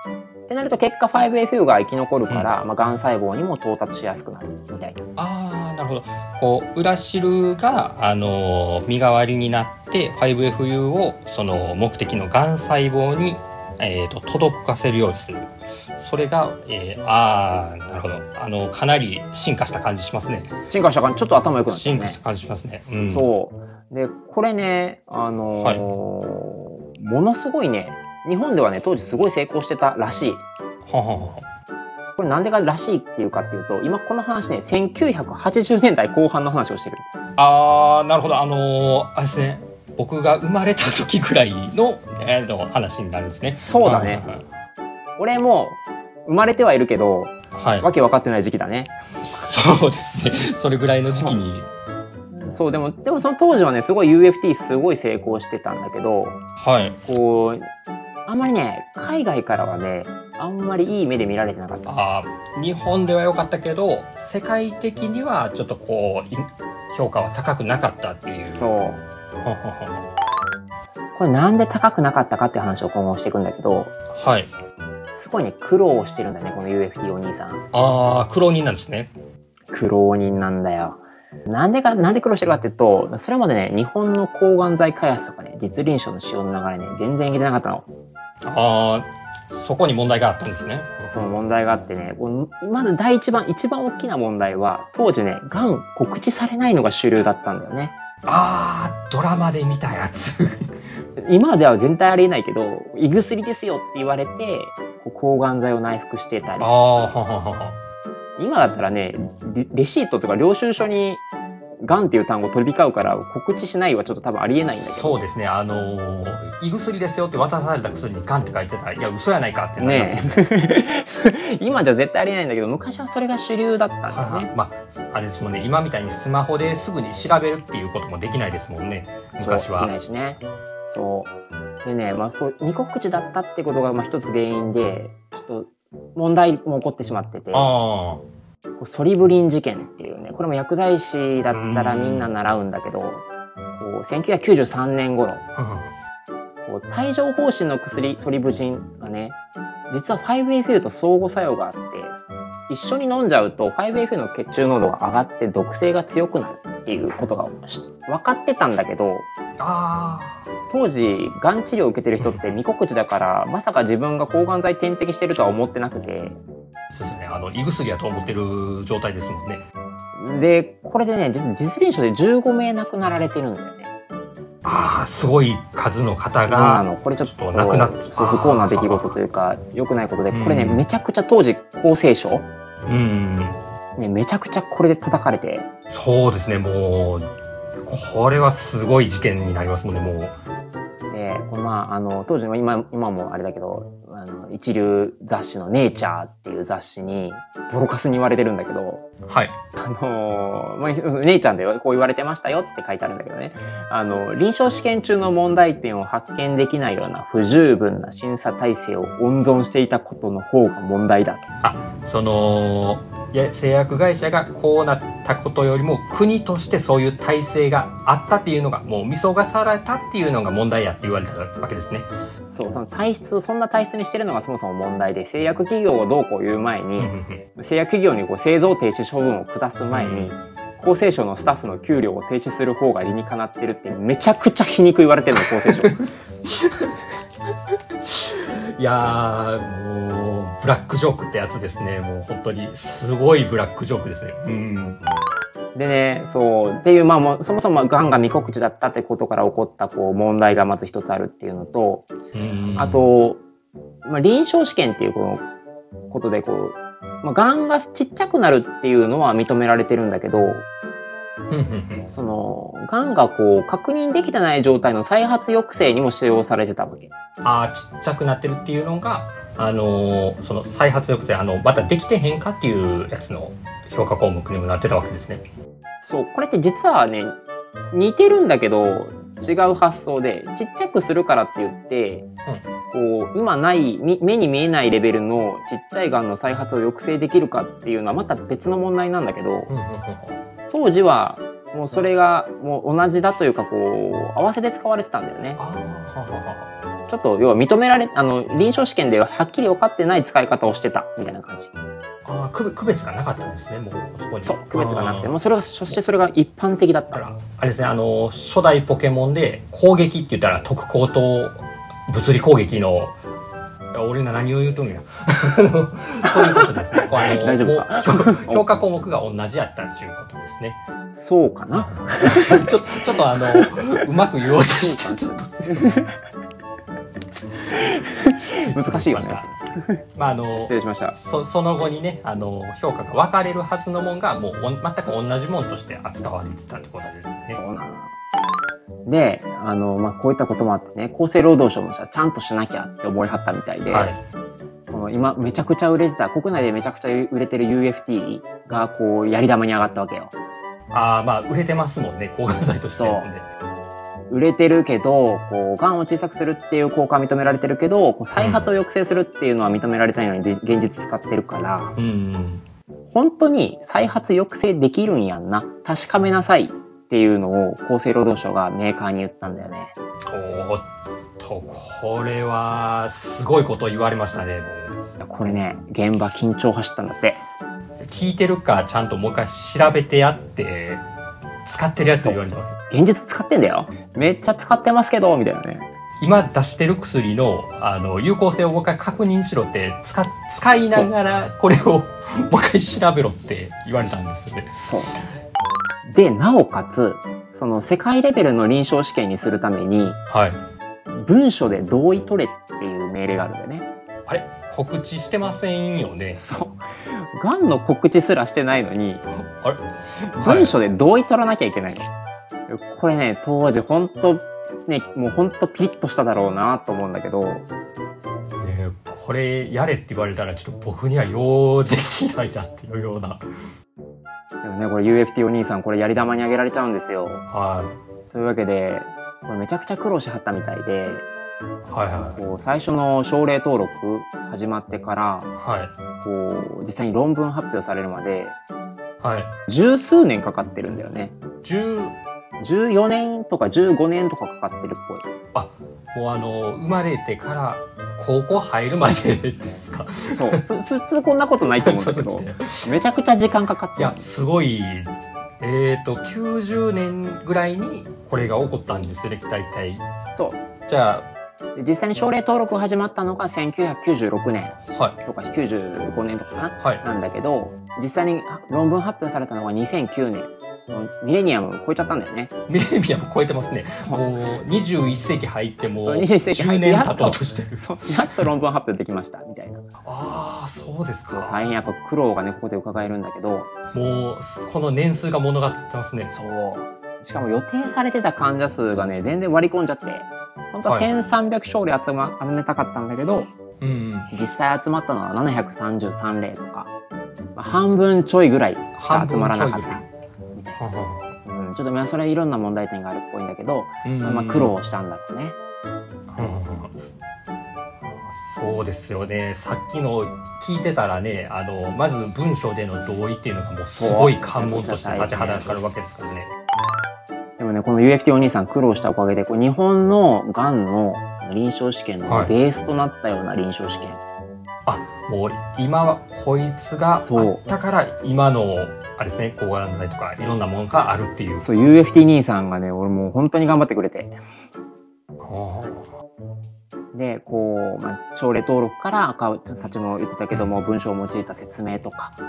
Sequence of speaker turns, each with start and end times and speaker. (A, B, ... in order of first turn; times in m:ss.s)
0:00.5-0:05.0 A
0:05.2-0:20.5 B
0:20.7-0:22.2 A
0:21.7-0:23.3 B
0:23.1-0:30.4 A
0:25.6-0:25.8 B
0:30.9-0:31.4 B
0:32.2-0:37.1 A
0:37.4-0:44.4 B
0:43.6-0:44.3 A
0:45.2-0:49.0 A
0:47.5-0:47.9 B
0:49.2-0:51.7 B
0:51.1-0:51.4 A
0:52.3-0:56.4 A
0:56.6-0:57.0 B
0:57.1-0:57.7 A
0:58.3-1:02.0 A
1:01.9-1:08.7 B
1:08.5-1:09.0 A
1:09.4-1:10.1 B
1:11.1-1:13.9 A
1:14.1-1:14.5 B
1:15.1-1:17.6 A
1:17.7-1:19.1 B
1:19.7-1:27.9 A
1:28.4-1:31.2 B
1:31.1-1:38.0 A
1:38.2-1:40.7 B
1:41.2-1:46.7 A
1:46.6-1:47.8 B
1:48.4-1:51.2 A
1:51.8-1:55.2 A
1:54.8-2:00.5 B
1:59.8-2:04.5 A
2:04.1-2:09.9 B
2:09.4-2:17.7 A
2:17.5-2:18.2 B
2:18.8-2:25.4 A
2:21.5-2:22.3 B
2:25.6-2:25.9 B
2:26.7-2:29.4 A
2:29.9-2:39.3 A
2:39.6-2:40.5 B
2:40.7-2:46.4 A
2:42.2-2:42.6 B
2:46.9-2:49.6 B
2:50.2-2:53.9 A
2:54.6-2:59.2 B
2:56.3-3:02.5 A
3:00.3-3:00.8 B
3:02.9-3:03.6 B
3:04.0-3:05.7 A
3:05.9-3:07.3 B
3:07.8-3:10.4 B
3:11.1-3:19.0 A
3:19.2-3:19.6 B
3:19.8-3:31.5 A
3:31.6-3:42.1 B
3:42.5-3:56.0 A
3:47.0-3:47.4 B
3:49.9-3:50.4 B
3:55.4-3:57.0 B
3:58.0-4:05.0 B
4:05.8-4:12.1 A
4:12.3-4:13.1 B
4:12.8-4:13.4 A
4:14.0-4:15.4 A
4:16.1-4:20.7 A
4:21.5-4:22.1 B
4:22.1-4:27.1 A
4:27.4-4:35.4 B
4:36.0-4:37.4 A
4:37.9-4:42.3 A
4:42.9-4:49.7 A
4:49.7-4:50.4 B
4:50.7-4:55.6 A
4:55.6-4:56.7 B
4:57.1-5:01.7 A
5:02.2-5:05.4 B
5:04.4-5:07.2 A
5:07.1-5:13.2 B
5:13.9-5:20.8 B
5:16.2-5:18.7 A
5:21.2-5:22.7 A
5:21.7-5:26.0 B
5:23.4-5:24.0 A
5:24.7-5:26.1 A
5:27.7-5:30.0 A
5:28.6-5:29.5 B
5:30.1-5:37.6 B
5:30.6-5:31.2 A
5:37.6-5:38.1 A
5:39.1-5:44.1 A
5:43.9-5:44.2 B
5:44.9-5:50.3 A
5:50.9-5:53.5 B
5:53.0-5:53.3 A
5:54.3-6:02.0 A
5:58.4-5:58.7 B
6:02.0-6:02.6 B
6:03.1-6:09.9 A
6:10.3-6:10.9 B
6:11.4-6:15.0 B
6:15.2-6:17.4 A
6:18.0-6:21.0 B
6:21.6-6:22.7 B
6:22.2-6:25.9 A
6:26.2-6:34.8 B
6:34.8-6:35.2 A
6:36.0-6:40.2 A
6:40.3-6:40.6 B
6:41.1-6:43.9 A
6:44.3-6:46.4 B
6:46.4-6:49.2 A
6:49.5-6:50.8 B
6:50.4-6:52.1 A
6:52.7-6:57.6 A
6:58.6-7:03.4 B
7:04.6-7:07.4 A
7:07.5-7:08.0 B
7:08.3-7:11.3 A
7:11.9-7:12.4 B
7:12.4-7:15.5 A
7:15.6-7:15.9 B
7:16.2-7:18.6 A
7:19.2-7:19.5 B
7:19.7-7:21.4 A
7:21.6-7:22.2 B
7:22.6-7:25.3 A
7:25.5-7:30.6 B
7:30.3-7:34.2 A
7:31.8-7:32.9 B
7:34.0-7:40.0 B
7:40.4-7:40.6 A
7:40.9-7:41.3 B
7:41.8-7:52.5 A
7:44.8-7:45.2 B
7:46.8-7:47.0 B
7:52.7-7:58.5 B
7:56.1-7:59.8 A
8:00.0-8:01.6 B
8:01.3-8:03.7 A
8:03.9-8:06.3 B
8:06.3-8:13.5 A
8:10.8-8:11.1 B
8:13.8-8:14.3 B
8:14.3-8:16.9 A
8:17.6-8:20.8 A
8:19.0-8:20.1 B
8:20.8-8:21.3 B
8:21.4-8:25.6 A
8:24.0-8:24.8 B
8:26.3-8:27.1 B
8:28.0-8:36.5 B
8:34.0-8:35.8 A
8:37.6-8:44.2 A
8:42.3-8:42.5 B
8:44.9-8:51.7 B
8:47.2-8:47.6 A
8:51.6-8:54.4 A
8:55.4-8:56.1 B
8:57.1-9:02.4 A
9:00.5-9:00.8 B